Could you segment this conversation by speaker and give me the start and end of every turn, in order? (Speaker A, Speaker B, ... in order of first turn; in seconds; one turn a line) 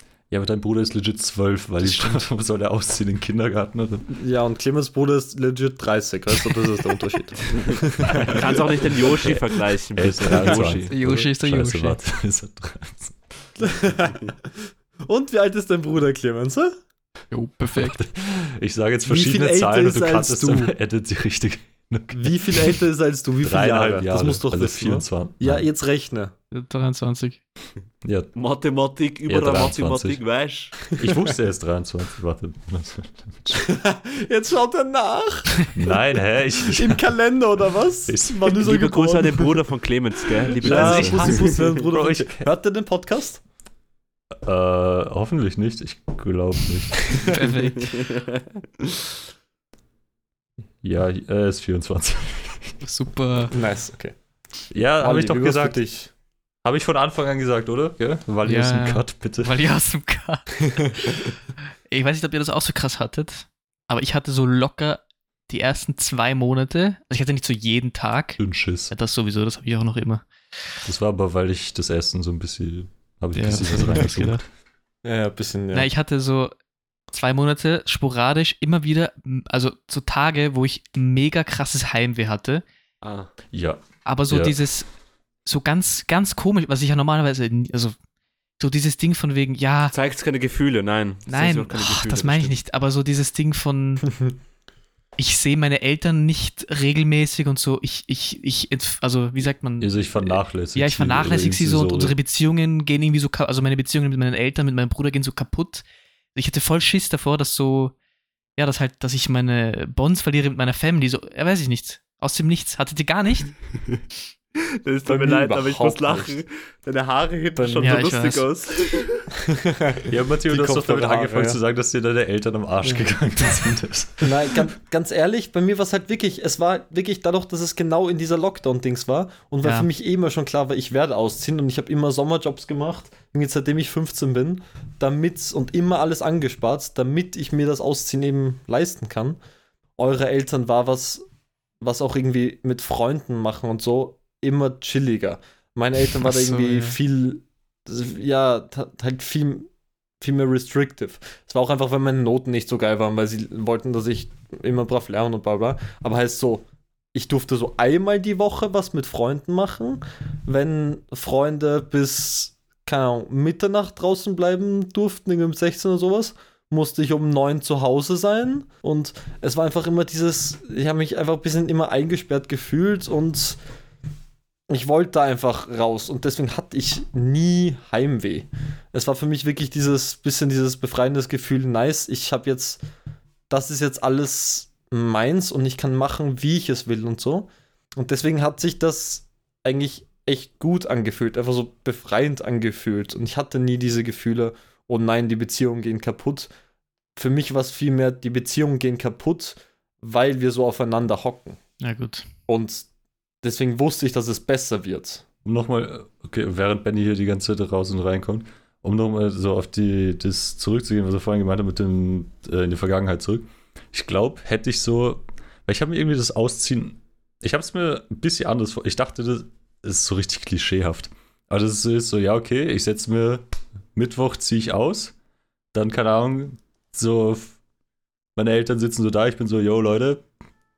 Speaker A: 0.3-4.1
Speaker B: 1.8-2.2
Speaker C: 4.2-8.4
Speaker D: 7.5-10.9
Speaker A: 10.0-13.2
Speaker B: 10.9-12.0
Speaker C: 13.6-14.3
Speaker C: 15.1-16.7
Speaker B: 17.3-18.0
Speaker A: 17.8-22.8
Speaker C: 19.1-20.7
Speaker C: 22.1-26.3
Speaker A: 23.4-25.6
Speaker B: 26.5-27.4
Speaker A: 28.0-28.3
Speaker D: 28.4-30.8
Speaker A: 29.3-30.2
Speaker A: 30.8-33.6
Speaker C: 33.6-35.9
Speaker A: 35.8-37.0
Speaker C: 36.7-39.6
Speaker A: 38.1-38.6
Speaker D: 38.6-41.8
Speaker C: 40.6-43.4
Speaker B: 40.6-41.5
Speaker A: 41.0-41.3
Speaker A: 41.9-42.5
Speaker A: 44.4-47.3
Speaker B: 47.3-48.0
Speaker D: 47.8-49.0
Speaker A: 50.8-52.8
Speaker B: 52.8-53.5
Speaker C: 53.5-54.1
Speaker A: 54.7-55.8
Speaker C: 55.0-56.1
Speaker A: 56.6-59.5
Speaker B: 58.5-61.2
Speaker B: 61.9-70.3
Speaker A: 68.4-68.9
Speaker A: 70.8-74.4
Speaker B: 73.3-74.4
Speaker C: 75.0-75.9
Speaker B: 75.7-76.5
Speaker B: 77.1-82.6
Speaker D: 83.0-83.3
Speaker A: 83.5-84.6
Speaker B: 84.0-84.9
Speaker B: 85.5-88.0
Speaker B: 88.6-89.9
Speaker D: 89.9-92.6
Speaker B: 91.3-94.1
Speaker B: 95.2-107.9
Speaker A: 99.8-102.2
Speaker B: 108.6-113.5
Speaker D: 114.8-119.2
Speaker C: 115.0-116.4
Speaker C: 117.6-118.0
Speaker B: 117.8-118.5
Speaker C: 119.5-121.6
Speaker A: 120.1-124.7
Speaker C: 124.2-139.4
Speaker B: 129.6-129.9
Speaker C: 140.0-141.2
Speaker C: 141.8-149.7
Speaker B: 146.2-147.0
Speaker C: 150.2-173.6
Speaker C: 174.7-182.8
Speaker C: 183.5-196.5
Speaker C: 197.2-201.6
Speaker B: 201.8-202.3
Speaker C: 202.5-202.9
Speaker C: 203.4-205.2
Speaker A: 205.4-225.2
Speaker A: 225.7-227.6
Speaker A: 228.4-230.2